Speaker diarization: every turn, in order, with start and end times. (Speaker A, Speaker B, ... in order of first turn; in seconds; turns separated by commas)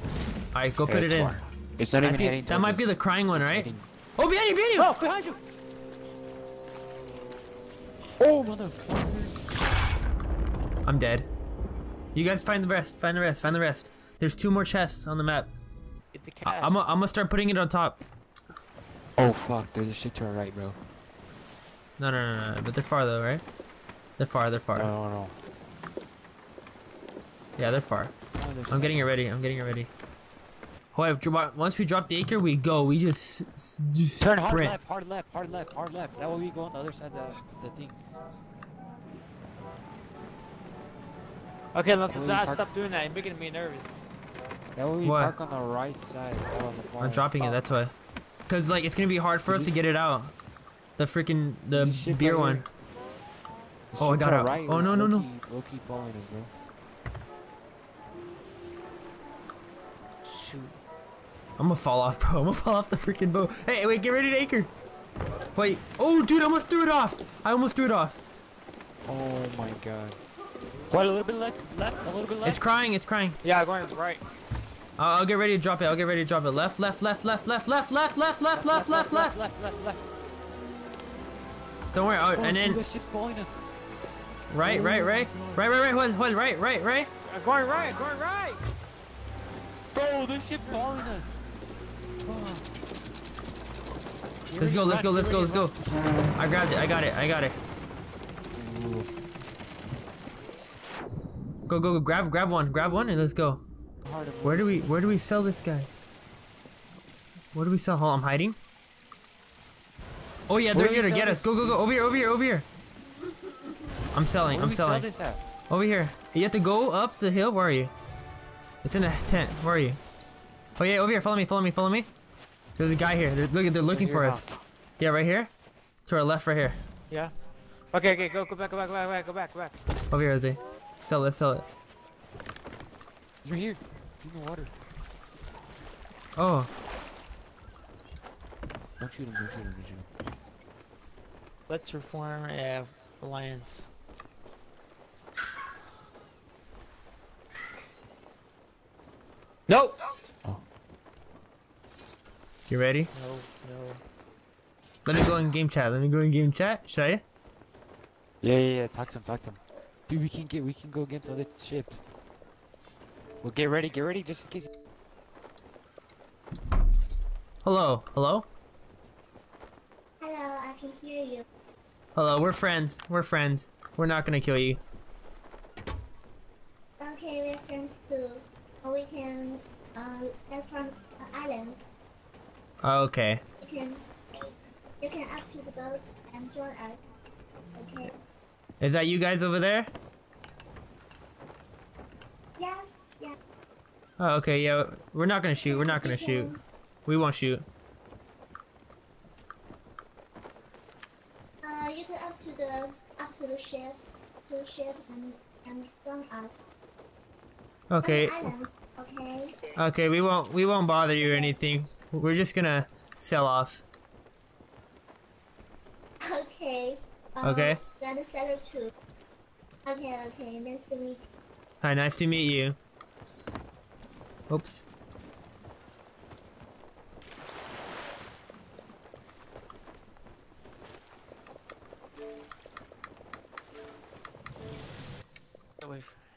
Speaker A: 0.5-1.4, Speaker B: 0.8-3.9, Speaker A: 2.0-4.9, Speaker C: 4.8-5.4, Speaker B: 8.2-9.7, Speaker A: 10.8-11.3, Speaker A: 12.2-15.5, Speaker C: 16.1-16.8, Speaker A: 16.4-18.0, Speaker B: 19.2-20.8, Speaker A: 22.0-23.4, Speaker A: 24.2-24.9, Speaker B: 24.7-25.4, Speaker A: 27.6-28.1, Speaker B: 28.4-29.1, Speaker A: 28.7-29.9, Speaker A: 30.9-34.8, Speaker B: 34.2-38.0, Speaker C: 41.7-43.9, Speaker B: 42.1-42.7, Speaker B: 44.8-47.6, Speaker A: 45.0-45.4, Speaker A: 47.0-47.9, Speaker A: 48.5-50.3, Speaker B: 49.5-49.8, Speaker A: 51.0-52.7, Speaker B: 51.7-52.6, Speaker B: 53.9-56.5, Speaker A: 54.0-55.3, Speaker C: 60.3-60.8, Speaker A: 61.6-64.7, Speaker A: 65.6-68.2, Speaker B: 69.0-70.2, Speaker B: 70.9-72.6, Speaker A: 72.4-73.4, Speaker C: 73.4-74.2, Speaker A: 75.0-79.3, Speaker B: 78.5-80.0, Speaker A: 81.9-82.8, Speaker B: 82.3-83.6, Speaker A: 84.5-87.1, Speaker B: 84.6-85.7, Speaker C: 87.2-88.6, Speaker B: 89.9-91.4, Speaker B: 92.2-92.7, Speaker B: 94.5-95.8, Speaker A: 94.6-95.8, Speaker A: 96.4-97.6, Speaker B: 98.5-99.1, Speaker A: 101.7-103.6, Speaker B: 104.0-104.9, Speaker A: 104.4-105.9, Speaker A: 107.5-108.6, Speaker A: 110.5-112.7, Speaker B: 110.7-111.9, Speaker A: 114.1-115.1, Speaker B: 114.5-115.4, Speaker A: 115.7-117.9, Speaker A: 118.8-120.0, Speaker A: 120.8-122.1, Speaker A: 122.8-125.5, Speaker B: 123.9-124.5, Speaker A: 126.1-126.8, Speaker C: 127.9-129.8, Speaker A: 130.1-131.7, Speaker B: 133.4-134.8, Speaker A: 136.4-136.7, Speaker B: 139.0-140.1, Speaker C: 141.7-143.9, Speaker C: 149.7-150.0, Speaker A: 152.7-153.1, Speaker C: 153.2-154.0, Speaker A: 155.1-157.2, Speaker B: 158.4-162.0, Speaker B: 163.4-164.7, Speaker A: 167.6-168.5, Speaker D: 170.2-171.4, Speaker A: 172.2-174.8, Speaker D: 177.0-181.8, Speaker A: 182.8-183.4, Speaker D: 183.6-184.0, Speaker D: 185.0-187.0, Speaker D: 187.8-188.2, Speaker A: 188.8-189.9, Speaker D: 192.6-193.4, Speaker A: 194.2-196.5, Speaker D: 195.7-196.6, Speaker A: 197.1-197.7, Speaker D: 201.6-206.6, Speaker A: 207.9-208.5, Speaker D: 208.0-209.6, Speaker A: 209.8-213.8, Speaker D: 211.2-211.5, Speaker D: 216.2-218.9, Speaker A: 217.4-217.8, Speaker D: 219.9-221.3, Speaker A: 221.8-222.8, Speaker A: 224.5-224.9, Speaker C: 235.8-236.1